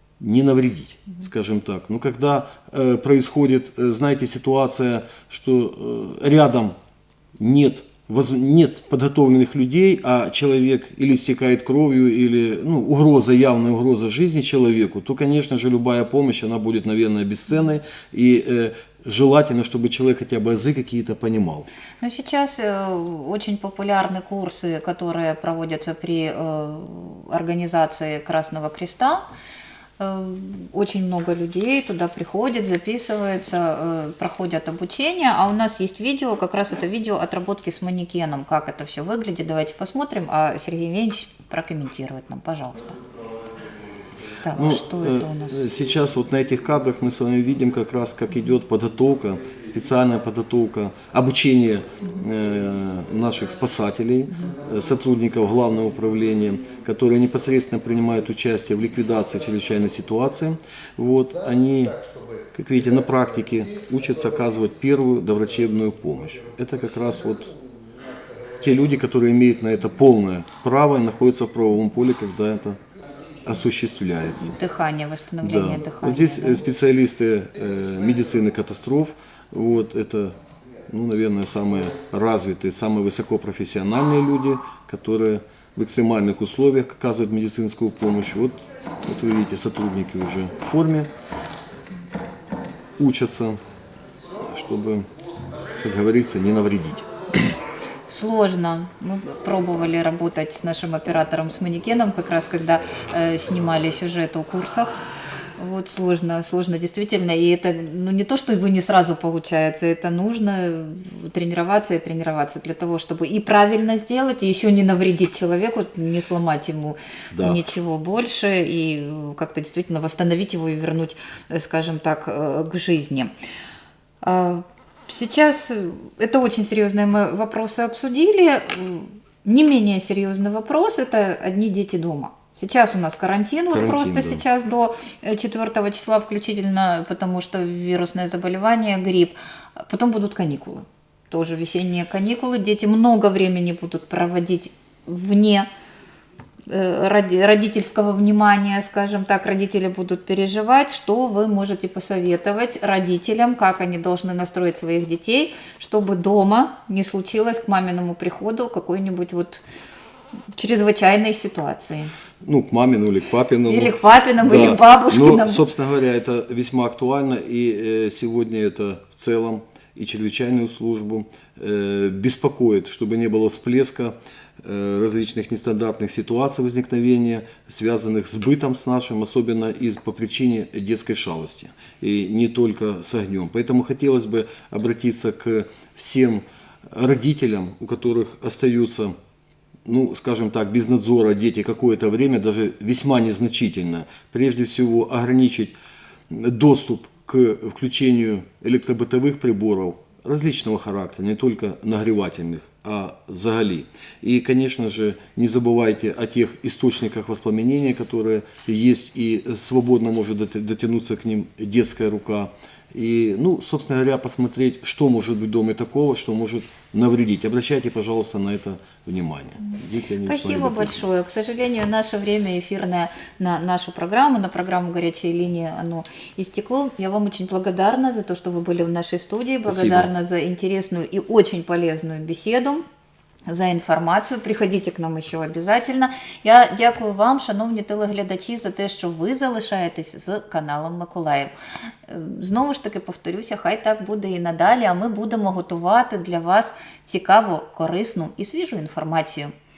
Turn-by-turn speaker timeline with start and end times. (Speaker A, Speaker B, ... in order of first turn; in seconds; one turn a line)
Speaker A: 0.2-6.7
Speaker A: 7.4-21.7
Speaker B: 22.0-29.2
Speaker B: 30.0-43.0
Speaker B: 44.4-45.7
Speaker A: 44.5-62.0
Speaker A: 62.5-67.5
Speaker A: 68.6-72.8
Speaker A: 73.4-74.6
Speaker B: 74.4-76.6
Speaker A: 75.4-80.3
Speaker A: 80.9-91.1
Speaker A: 93.0-93.6
Speaker A: 94.4-95.1
Speaker A: 95.8-97.0
Speaker B: 98.1-104.9
Speaker B: 105.6-123.3
Speaker A: 117.3-117.6
Speaker B: 124.2-145.7
Speaker A: 133.7-134.4
Speaker B: 146.7-159.6
Speaker B: 160.5-162.1
Speaker A: 162.4-189.1
Speaker B: 163.7-165.6
Speaker A: 189.8-195.7
Speaker A: 196.3-221.0
Speaker B: 220.2-232.8
Speaker A: 229.7-230.1
Speaker B: 233.5-241.5
Speaker B: 242.1-249.5